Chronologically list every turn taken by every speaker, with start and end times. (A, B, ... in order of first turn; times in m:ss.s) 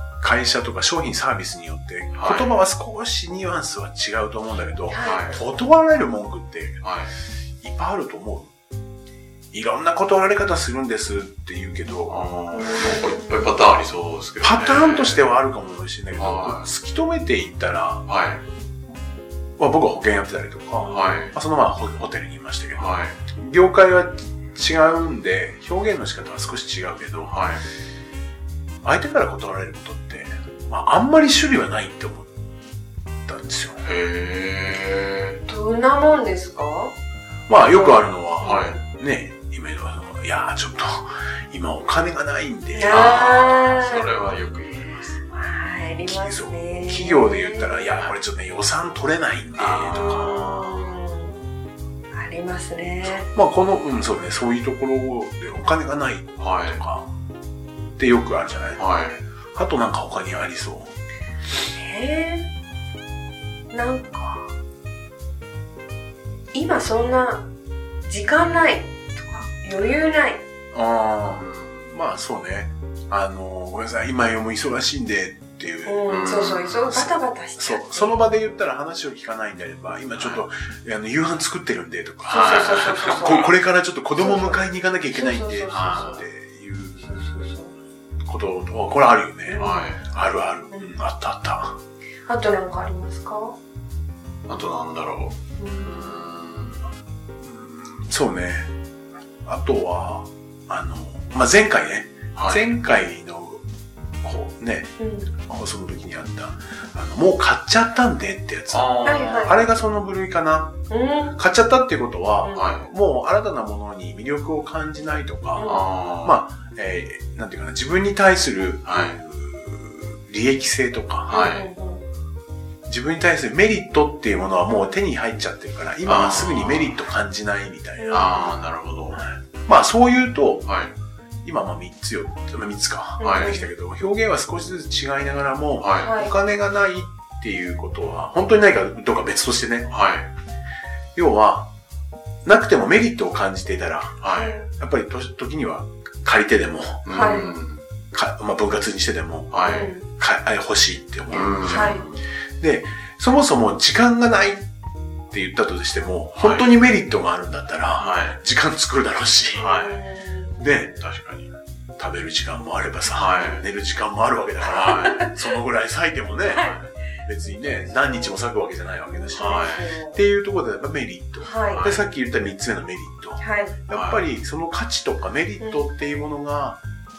0:00.2-0:06.8 A
0:02.2-0:02.6 B
0:04.9-0:05.3 C
0:05.0-0:05.4 B
0:06.8-0:07.1 B
0:07.6-0:08.5 A
0:09.5-0:12.3 A
0:12.1-0:15.3 B
0:12.5-0:13.5 C
0:14.4-0:18.1 A
0:16.2-0:16.7 B
0:18.1-0:18.4 B
0:19.6-0:27.4 A
0:20.8-0:21.4 B
0:22.8-0:23.2 B
0:27.3-0:27.6 B
0:28.8-0:32.3 A
0:33.3-0:33.8 A
0:33.8-0:35.4 B
0:35.5-0:36.9 C
0:37.5-0:43.3 A
0:37.6-0:38.8 C
0:37.8-0:38.8 B
0:42.7-0:44.2 C
0:42.9-0:45.2 B
0:45.3-0:48.1 C
0:46.1-0:50.8 A
0:49.6-0:50.5 B
0:49.9-0:51.4 C
0:52.1-0:53.3 C
0:53.0-0:57.1 A
0:56.4-0:56.8 B
0:58.0-0:58.8 A
0:58.8-0:59.2 B
0:59.6-1:00.9 A
1:01.7-1:02.5 C
1:03.7-1:04.5 C
1:06.5-1:07.5 C
1:08.1-1:10.4 C
1:10.7-1:16.0 A
1:11.3-1:12.0 B
1:15.9-1:18.2 C
1:16.1-1:16.9 B
1:16.7-1:27.4 A
1:20.2-1:20.4 B
1:22.3-1:23.5 C
1:22.3-1:23.5 B
1:24.2-1:26.2 C
1:25.7-1:26.2 B
1:27.0-1:27.7 C
1:28.3-1:31.8 A
1:29.5-1:29.9 C
1:29.6-1:30.1 B
1:32.3-1:33.6 C
1:34.5-1:36.8 B
1:35.6-1:36.2 C
1:37.4-1:38.7 A
1:39.4-1:43.6 A
1:42.4-1:42.7 B
1:44.2-1:50.8 A
1:45.0-1:45.3 C
1:48.7-1:49.6 B
1:49.0-1:49.6 C
1:50.9-1:51.4 C
1:51.4-2:01.4 A
1:52.5-1:52.9 B
1:55.6-1:55.8 C
1:55.6-1:56.4 B
1:58.9-1:59.2 B
2:01.3-2:01.7 B
2:01.3-2:02.0 C
2:02.9-2:08.5 A
2:04.6-2:05.0 C
2:06.0-2:07.0 B
2:08.0-2:08.6 C
2:08.1-2:09.3 B
2:09.2-2:10.7 A
2:10.6-2:10.9 B
2:11.4-2:19.9 A
2:13.2-2:13.7 C
2:13.2-2:13.6 B
2:15.8-2:16.2 B
2:16.0-2:16.4 C
2:19.9-2:20.3 B
2:21.2-2:21.7 A
2:22.4-2:27.1 A
2:24.2-2:24.6 B
2:24.3-2:24.7 C
2:27.0-2:27.8 B
2:27.1-2:27.5 C
2:28.1-2:32.0 A
2:29.5-2:30.0 B
2:29.6-2:30.1 C
2:31.3-2:32.2 B
2:31.4-2:32.1 C
2:32.6-2:34.7 A
2:35.3-2:39.7 A
2:36.4-2:36.7 B
2:38.0-2:38.2 C
2:38.0-2:38.4 B
2:39.6-2:40.7 C
2:39.6-2:40.0 B
2:40.6-2:41.0 A
2:41.0-2:41.5 B
2:42.0-2:46.7 A
2:43.1-2:43.7 B
2:44.6-2:45.3 B
2:44.7-2:45.3 C
2:46.4-2:46.8 C
2:46.6-2:46.9 B
2:47.2-2:56.8 A
2:47.4-2:48.4 C
2:49.1-2:50.2 C
2:49.4-2:49.9 B
2:51.4-2:51.9 C
2:51.7-2:52.1 B
2:53.4-2:53.8 C
2:53.9-2:54.3 B
2:55.6-2:55.9 C